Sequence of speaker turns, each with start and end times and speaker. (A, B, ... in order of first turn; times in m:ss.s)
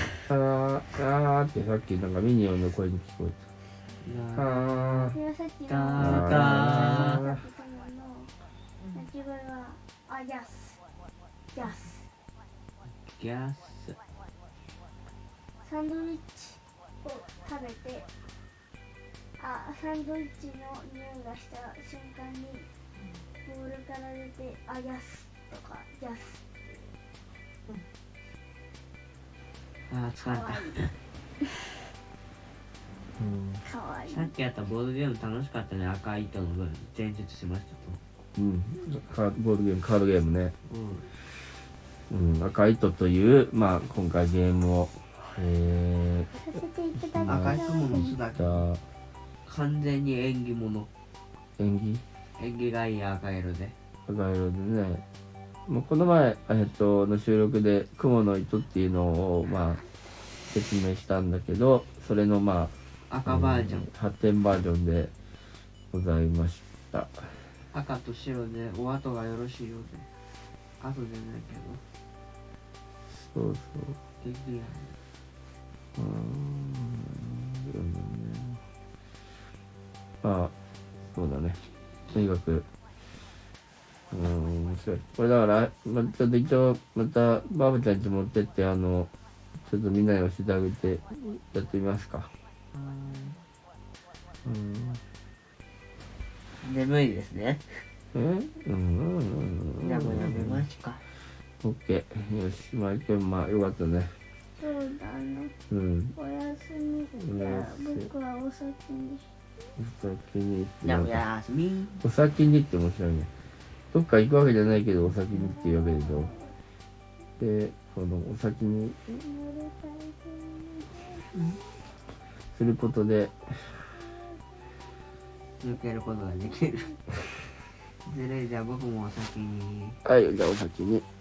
0:00.3-0:03.4 A
0:04.0-0:05.1 B
0:04.3-0:05.2 A
0:05.1-0:08.3 C
0:05.7-0:07.2 B
0:06.0-0:07.2 A
0:08.9-0:10.8 C
0:11.5-0:12.1 C
0:13.0-0:14.0 B
0:15.6-0:18.0 C
0:19.4-0:22.7 C
0:23.4-0:26.9 C
0:29.9-0:30.9 B
0:30.2-0:30.8 C
0:33.2-0:33.6 A
0:33.6-0:34.3 C
0:34.1-0:38.0 B
0:38.4-0:40.5 A
0:40.6-0:41.0 B
0:42.1-0:46.3 A
0:46.4-0:48.2 C
0:47.0-0:48.8 A
0:47.2-0:48.6 B
0:49.4-0:50.9 B
0:51.6-0:52.0 A
0:52.4-0:53.7 B
0:54.1-0:55.0 A
0:55.7-0:59.8 A
1:00.5-1:02.7 A
1:03.1-1:03.9 B
1:03.2-1:05.1 A
1:05.9-1:07.4 A
1:07.7-1:10.1 B
1:10.8-1:11.8 B
1:13.1-1:14.0 A
1:14.2-1:15.0 B
1:16.0-1:18.6 A
1:20.2-1:20.5 A
1:21.1-1:21.6 A
1:22.1-1:22.6 A
1:24.1-1:29.1 A
1:29.6-1:32.3 A
1:32.7-1:33.4 B
1:34.4-1:35.0 A
1:36.6-1:37.8 B
1:38.1-1:40.6 A
1:39.8-1:41.0 B
1:41.6-1:44.1 A
1:44.6-1:45.5 C
1:45.7-1:46.1 A
1:46.2-1:49.2 C
1:47.1-1:48.1 A
1:49.8-1:51.2 A
1:50.8-1:52.0 B
1:52.0-1:53.3 A
1:53.9-1:56.3 A
1:55.3-1:56.5 C
1:57.4-1:59.0 A
1:59.1-2:01.4 C
2:02.5-2:03.7 A
2:05.6-2:06.9 B
2:08.0-2:10.0 B
2:10.0-2:11.0 A